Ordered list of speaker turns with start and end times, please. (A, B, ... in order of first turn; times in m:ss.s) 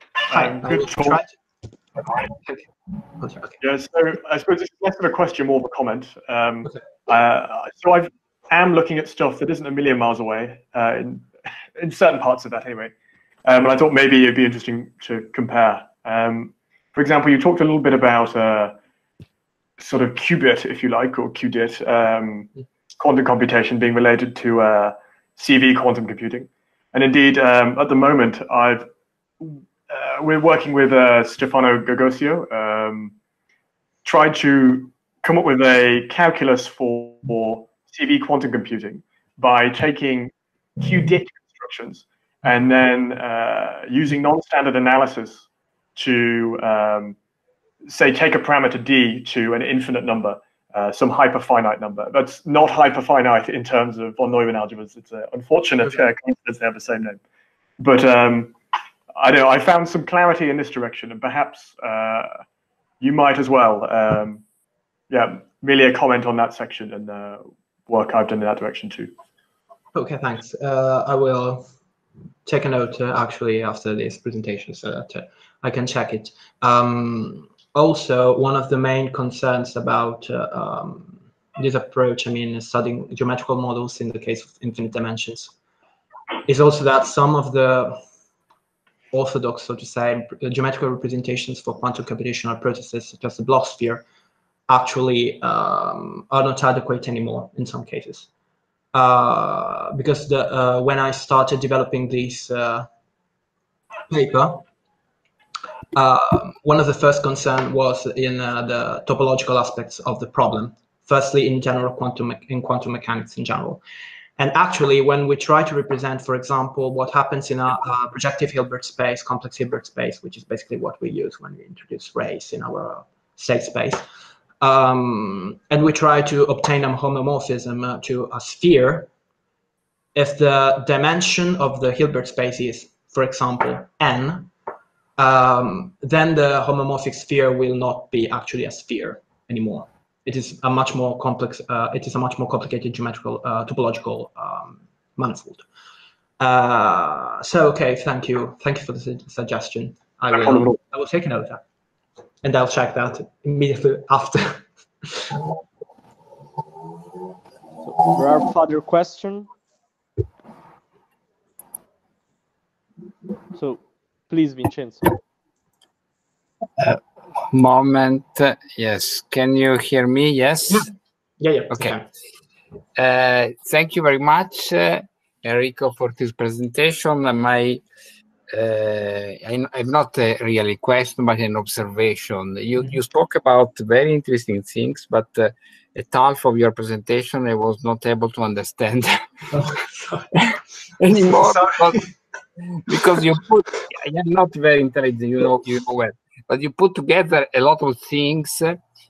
0:00.3-0:01.2 A
0:00.3-0:01.3 B
0:02.0-0:02.6 B
0:03.2-0:03.6 B
0:03.6-0:12.9 A
0:13.5-0:18.8 A
0:19.8-0:28.9 A
0:29.4-0:33.1 A
0:34.0-0:47.2 A
0:47.9-0:57.2 A
0:57.8-0:58.5 A
0:59.2-1:02.4 A
1:03.0-1:04.4 A
1:05.1-1:09.1 A
1:09.9-1:11.7 B
1:12.5-1:25.5 B
1:26.5-1:28.0 B
1:29.1-1:34.0 B
1:34.7-1:38.3 B
1:38.9-1:42.9 B
1:44.1-1:44.6 B
1:45.9-1:53.8 B
1:54.4-2:04.0 B
2:04.6-2:09.1 B
2:10.2-2:14.5 B
2:15.2-2:25.6 B
2:26.4-2:31.6 B
2:30.3-2:30.8 A
2:32.4-2:35.4 B
2:37.8-2:39.5 C
2:43.5-2:45.2 C
2:47.5-2:50.9 D
2:51.4-2:52.1 B
2:53.0-2:57.8 D
2:58.5-3:09.1 D
3:09.5-3:10.3 B
3:10.4-3:12.0 D
3:11.1-3:12.1 B
3:12.8-3:18.8 D